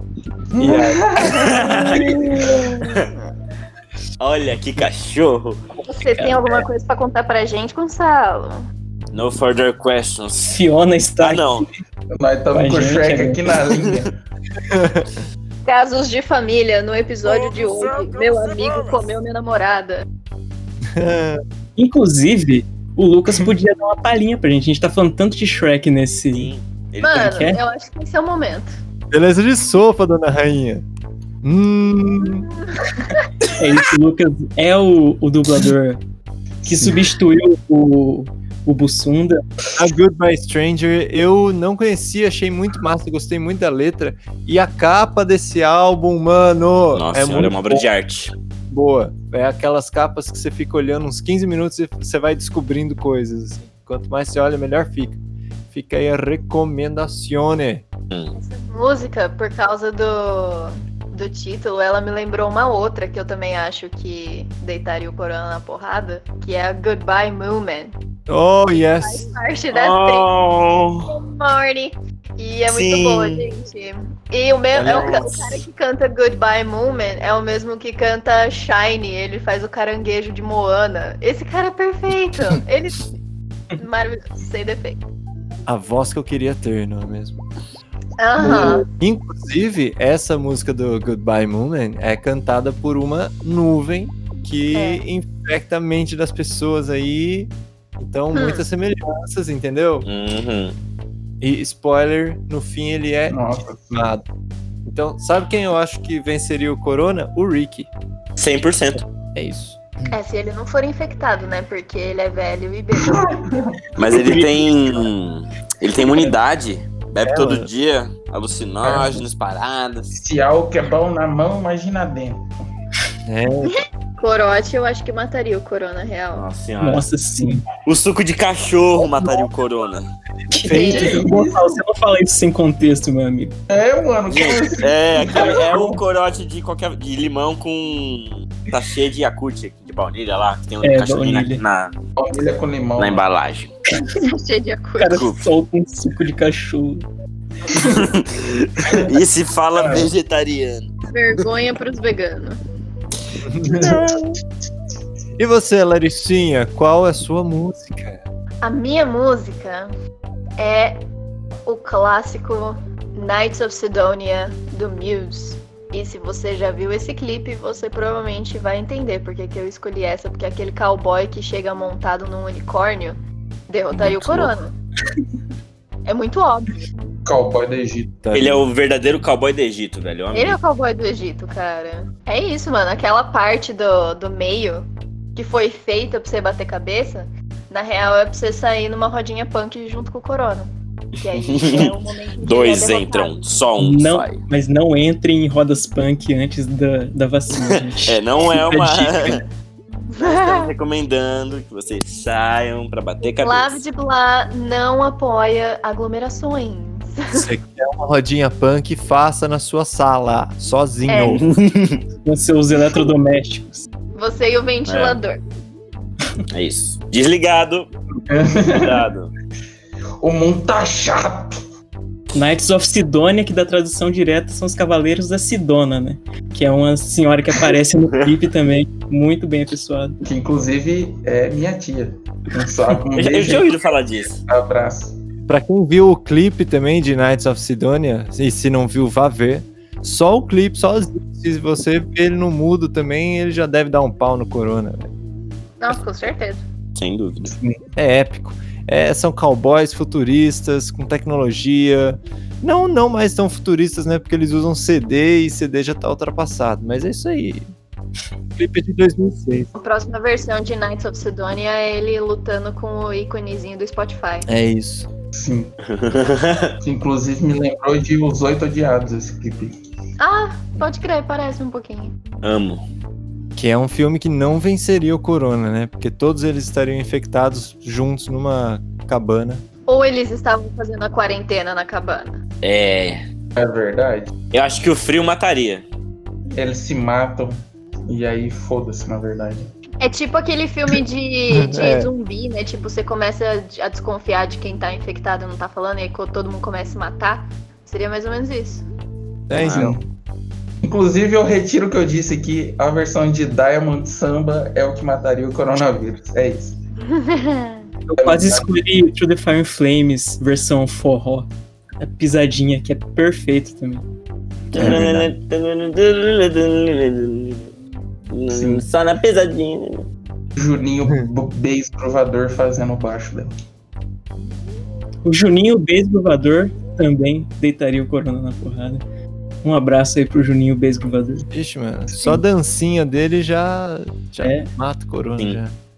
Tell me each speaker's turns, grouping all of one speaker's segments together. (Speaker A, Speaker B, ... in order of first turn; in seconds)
Speaker A: 0.5-2.5, 12.1-14.2, 88.4-88.8, 103.3-104.0, 112.9-114.6, 118.8-119.2, 120.1-122.4, 130.9-131.7, 133.7-136.0, 142.2-143.2, 177.2-178.1, 218.3-219.0, 220.2-221.6, 230.2-233.8, 234.4-235.2, 247.4-247.8, 265.3-265.7, 266.8-269.8, 283.6-284.3, 286.5-287.6, 288.1-289.7, 299.6-300.0, 300.8-306.8, 308.2-308.6, 318.5-318.9, 320.6-323.5
Speaker B: 0.6-1.1, 14.7-15.2, 20.9-21.4, 29.1-30.8, 31.4-32.5, 39.8-47.8, 48.7-55.2, 55.7-57.8, 68.3-69.2, 85.7-87.4, 88.4-100.1, 101.4-104.2, 104.8-107.9, 109.3-110.1, 117.2-117.7, 123.3-123.7, 130.6-131.4, 153.4-154.2, 155.4-158.2, 178.2-178.6, 207.3-211.4, 235.5-245.1, 248.0-257.7, 258.5-259.7, 264.5-265.1, 273.6-279.6, 291.5-292.1, 299.5-300.0, 314.8-315.3, 331.5-335.7
Speaker C: 1.2-3.0, 4.2-5.6, 9.1-10.6, 11.2-11.7, 17.2-19.1, 26.3-27.4, 46.9-48.3, 69.7-71.1, 72.7-73.4, 74.7-75.6, 100.0-100.8, 108.4-109.0, 114.0-120.1, 126.3-127.0, 127.8-130.1, 134.3-141.9, 142.9-143.7, 145.1-145.4, 147.8-150.9, 173.9-174.5, 178.3-180.6, 191.3-194.4, 198.0-199.4, 200.2-203.8, 211.6-212.0, 214.8-215.2, 216.5-217.9, 218.7-219.3, 233.1-234.4, 246.9-247.5, 265.9-266.7, 272.4-272.8, 282.6-283.2, 284.5-285.9, 299.6-299.9, 314.7-317.7, 318.3-320.0
Speaker D: 1.6-3.2, 5.8-8.6, 15.6-20.1, 27.0-28.7, 58.3-67.9, 68.7-70.3, 71.0-83.0, 83.7-85.0, 88.2-88.8, 94.7-95.0, 98.3-98.6, 110.1-113.2, 123.7-126.5, 144.1-145.2, 151.1-152.6, 158.6-159.9, 160.6-161.0, 161.7-173.2, 173.7-174.7, 176.1-176.9, 180.3-190.7, 191.2-193.5, 200.1-200.7, 203.3-207.5, 211.1-211.4, 214.1-215.4, 245.8-246.6, 259.8-264.5, 270.2-272.1, 279.9-282.4, 290.0-298.9, 307.1-307.8
Speaker E: 6.1-6.6, 10.5-11.6, 12.5-13.4, 21.8-26.5, 27.1-27.6, 33.5-36.0, 36.6-39.4, 126.8-127.6, 130.5-133.5, 140.8-141.6, 145.0-147.1, 193.8-199.4, 212.2-213.8, 222.3-230.2, 308.1-311.5, 312.0-314.1, 325.2-329.0, 329.6-331.4, 334.4-334.7